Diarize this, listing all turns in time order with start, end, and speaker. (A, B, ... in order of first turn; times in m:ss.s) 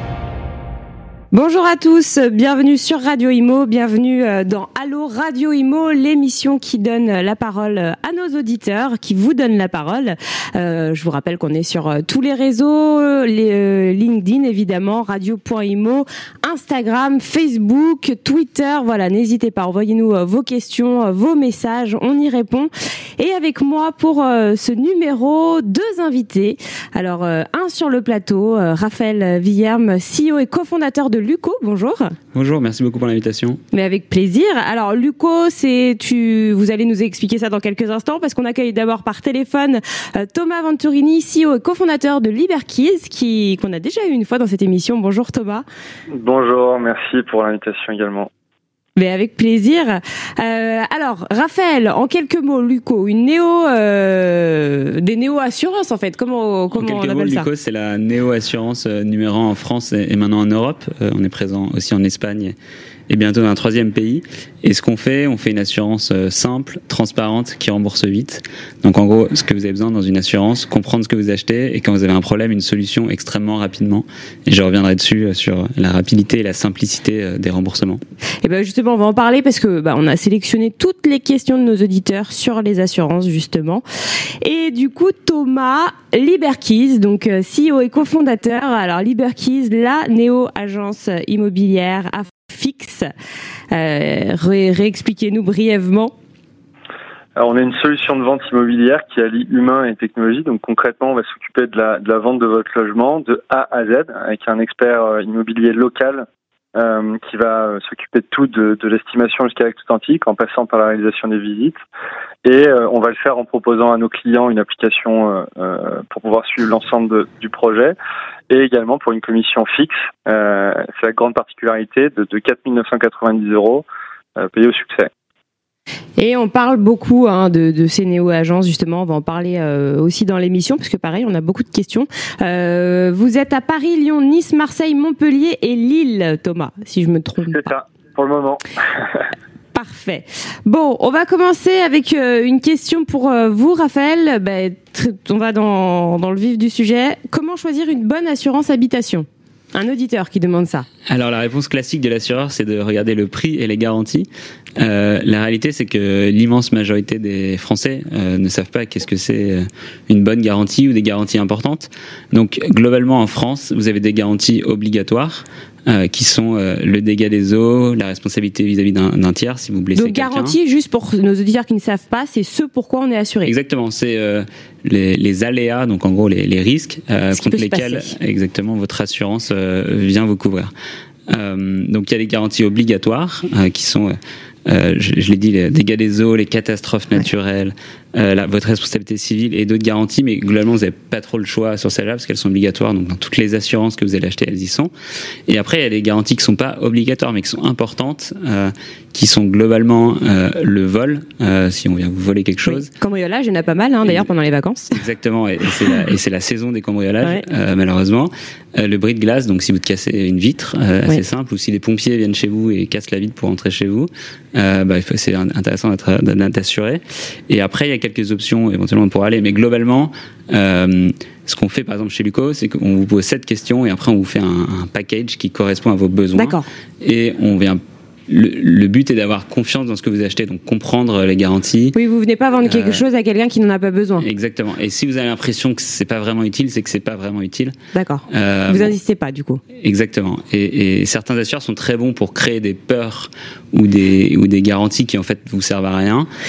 0:01.3-0:32.2 A
0:32.3-0:33.6 B
0:33.7-0:45.6 A
0:46.1-0:48.3 C
0:49.0-0:57.5 A
0:56.7-1:02.6 B
1:03.1-1:18.0 B
1:18.4-1:23.8 A
1:24.4-1:33.1 A
1:33.7-1:36.1 A
1:37.4-1:51.8 C
1:52.4-1:58.0 C
1:58.5-2:03.8 C
2:04.4-2:05.1 C
2:06.2-2:17.7 A
2:17.5-2:19.3 C
2:19.7-2:30.9 A
2:31.1-2:50.6 B
2:50.0-2:53.5 A
2:53.5-3:00.7 B
2:57.3-2:58.1 A
3:01.3-3:14.9 B
3:15.5-3:22.9 B
3:22.7-3:25.0 A
3:24.9-3:52.0 B
3:46.4-3:46.7 A
3:52.0-3:54.2 A
3:52.6-3:53.0 B
3:54.2-3:57.8 B
3:57.9-3:59.6 A
3:58.3-3:59.0 B
3:59.7-4:06.3 B